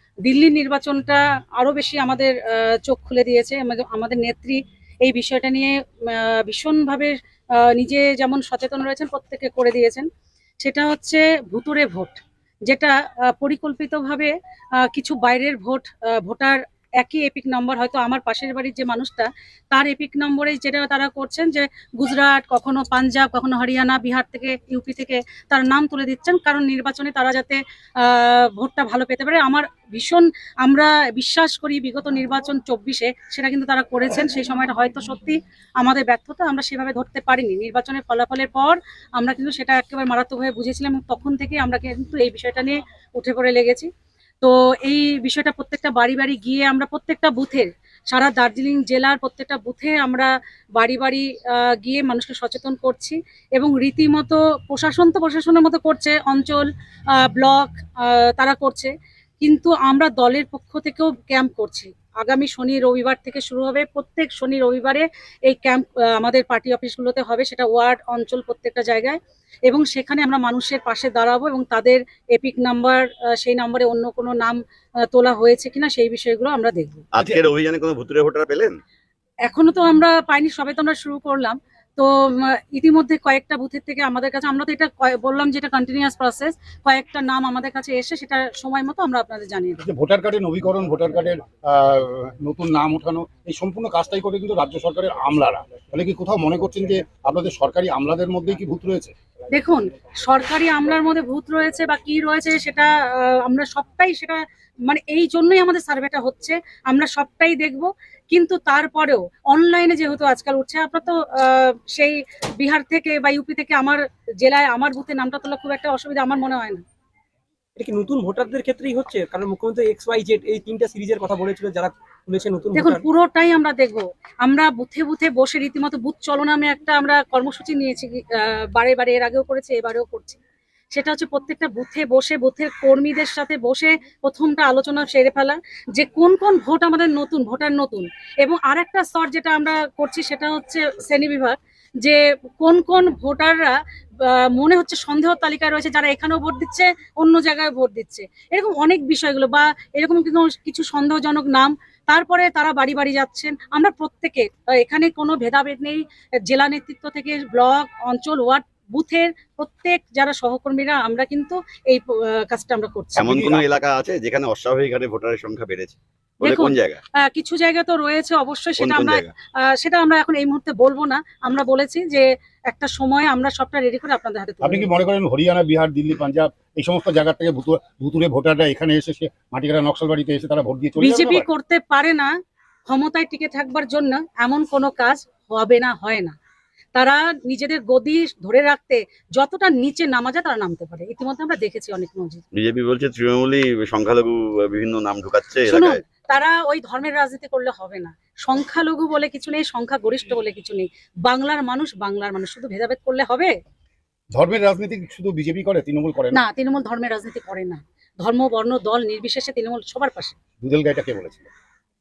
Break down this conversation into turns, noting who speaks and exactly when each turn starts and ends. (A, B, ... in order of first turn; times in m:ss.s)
0:00.2-0:10.1 A
0:10.6-0:43.9 A
0:44.4-1:14.6 A
1:15.1-1:17.0 A
1:17.2-1:18.8 B
1:19.5-1:29.9 A
1:29.8-1:39.1 C
1:39.5-1:56.8 A
1:57.8-2:03.0 D
2:02.8-2:10.4 A
2:10.9-2:43.3 A
2:43.2-2:47.0 B
2:43.3-2:43.7 C
2:46.4-2:54.9 A
2:48.8-2:49.3 B
2:54.6-3:01.5 C
3:01.0-3:02.3 A
3:02.9-3:06.4 A
3:06.9-3:12.4 A
3:12.5-3:16.0 B
3:15.7-3:23.5 A
3:24.3-3:26.4 C
3:26.3-3:30.4 A
3:30.6-3:31.5 C